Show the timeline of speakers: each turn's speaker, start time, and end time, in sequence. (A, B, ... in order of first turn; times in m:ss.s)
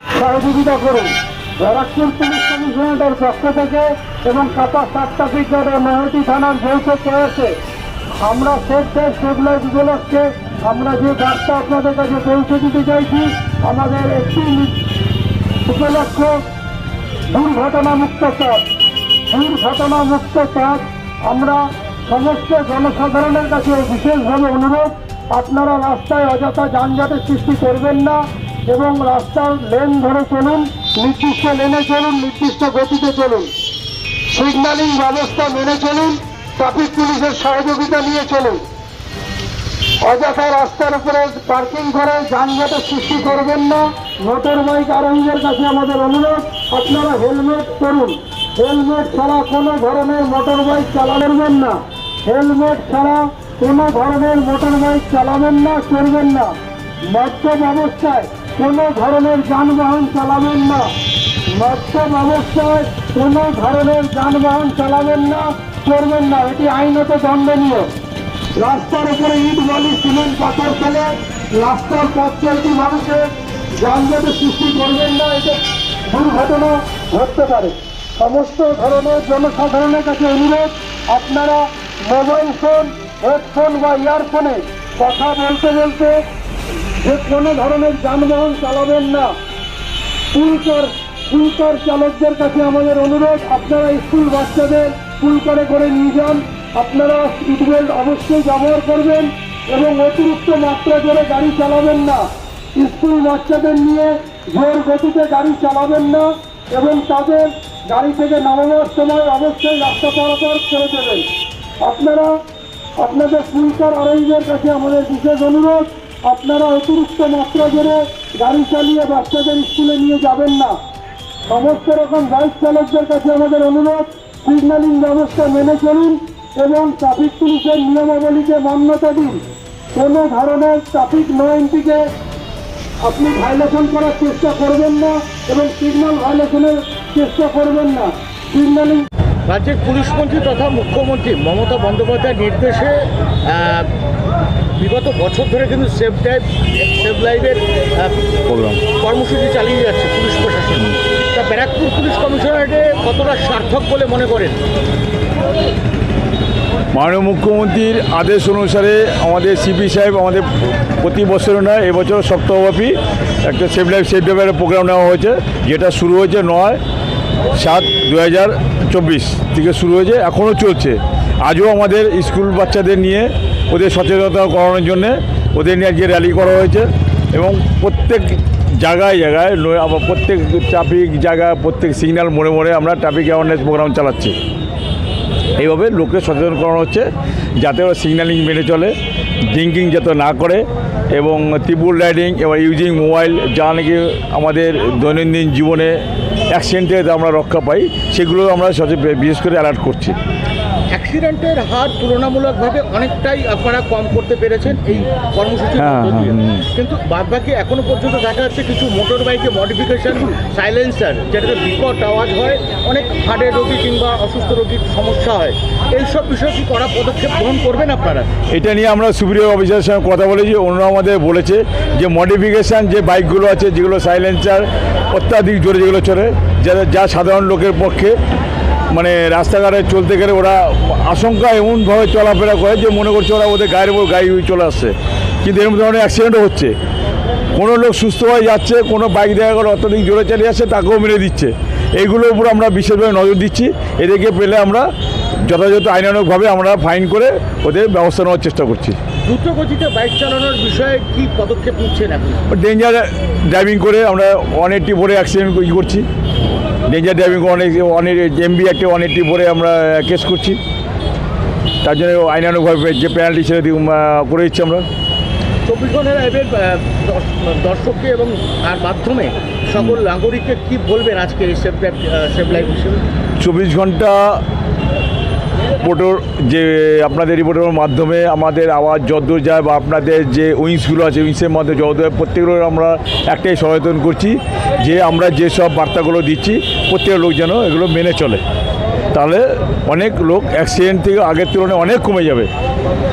0:00.2-0:07.6 A
0:08.2-0:14.8 A
0:15.6-0:16.4 A
0:17.3-0:18.6 A
0:19.3-0:33.5 A
0:34.3-0:38.6 A
0:40.0-0:56.5 A
0:57.1-1:00.9 A
1:01.5-1:07.9 A
1:08.6-1:26.2 A
1:27.0-1:29.3 A
1:30.3-1:51.3 A
1:51.8-1:52.3 A
1:53.0-2:00.8 A
2:01.5-2:09.4 A
2:09.9-2:12.1 A
2:13.0-2:19.1 A
2:19.5-2:23.9 B
2:24.8-2:28.3 B
2:28.5-2:28.8 C
2:28.9-2:34.6 B
2:36.9-2:46.8 C
2:47.5-3:04.4 C
3:05.6-3:07.1 C
3:07.6-3:08.9 C
3:09.5-3:16.0 C
3:16.5-3:20.2 C
3:20.9-3:38.3 B
3:25.8-3:26.7 C
3:38.5-3:48.1 C
3:48.9-3:56.7 C
3:57.5-4:04.8 C
4:05.4-4:09.0 C
4:09.2-4:12.4 B
4:12.5-4:16.0 C
4:16.9-4:20.6 C
4:21.8-4:24.8 C
4:25.6-4:33.0 B
4:33.4-4:34.4 C
4:35.8-4:48.4 C
4:49.1-4:52.5 C